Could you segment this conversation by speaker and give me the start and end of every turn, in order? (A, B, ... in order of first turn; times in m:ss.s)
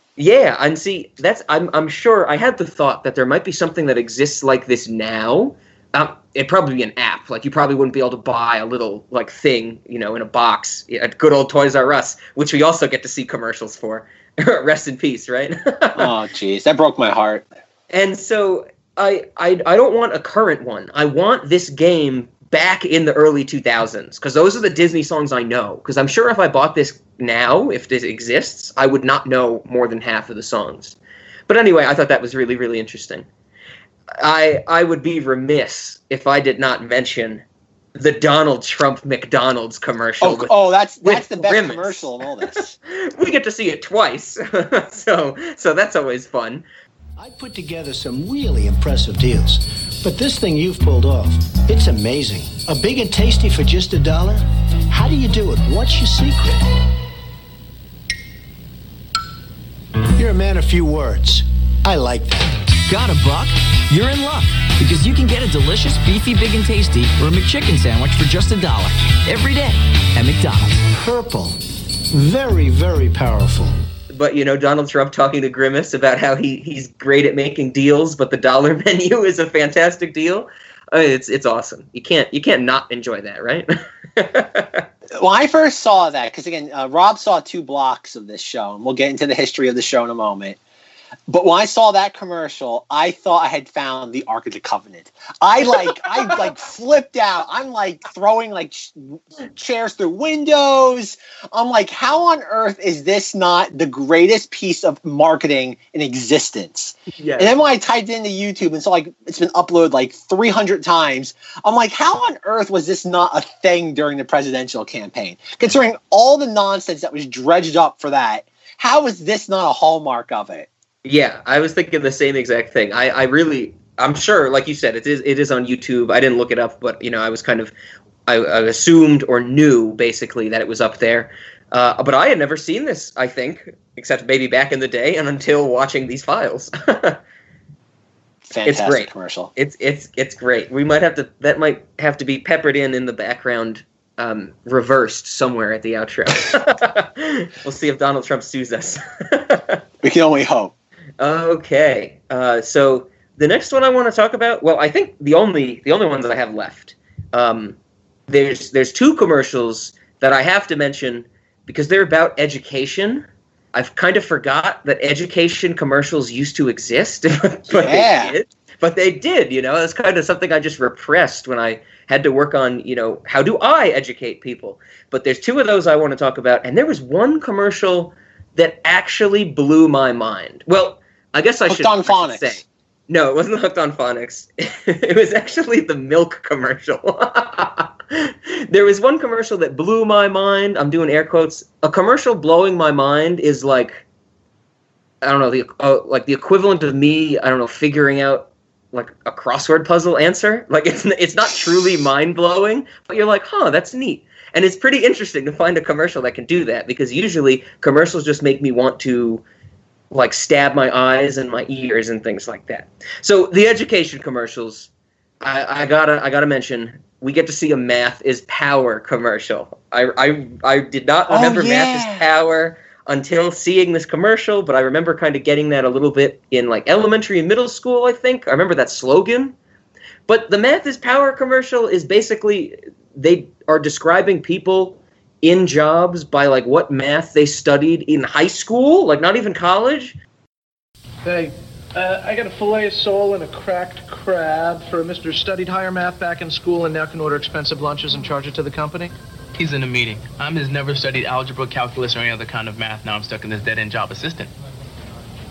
0:00.2-0:16.1 A
0:15.9-0:17.5 B
0:17.9-0:31.0 A
0:31.5-0:33.3 A
0:34.2-0:37.4 A
0:37.9-0:46.6 A
0:40.2-0:42.7 B
0:47.2-0:56.6 C
1:00.2-1:02.4 C
1:02.8-1:10.8 D
1:11.0-1:11.6 C
1:12.1-1:13.8 C
1:14.1-1:24.8 A
1:25.2-1:30.6 B
1:31.3-2:00.7 B
1:47.2-1:47.5 A
2:01.0-2:07.7 A
2:08.3-2:17.2 A
2:18.4-2:19.5 B
2:18.6-2:29.8 A
2:30.0-2:30.7 B
2:31.2-2:37.8 A
2:38.3-3:14.0 A
2:47.7-2:48.3 B
3:01.6-3:02.6 B
3:15.2-3:29.4 A
3:30.1-3:34.9 A
3:35.4-3:49.5 A
3:41.3-3:42.2 B
3:50.3-4:00.2 A
4:01.2-4:09.1 E
4:09.6-4:14.5 F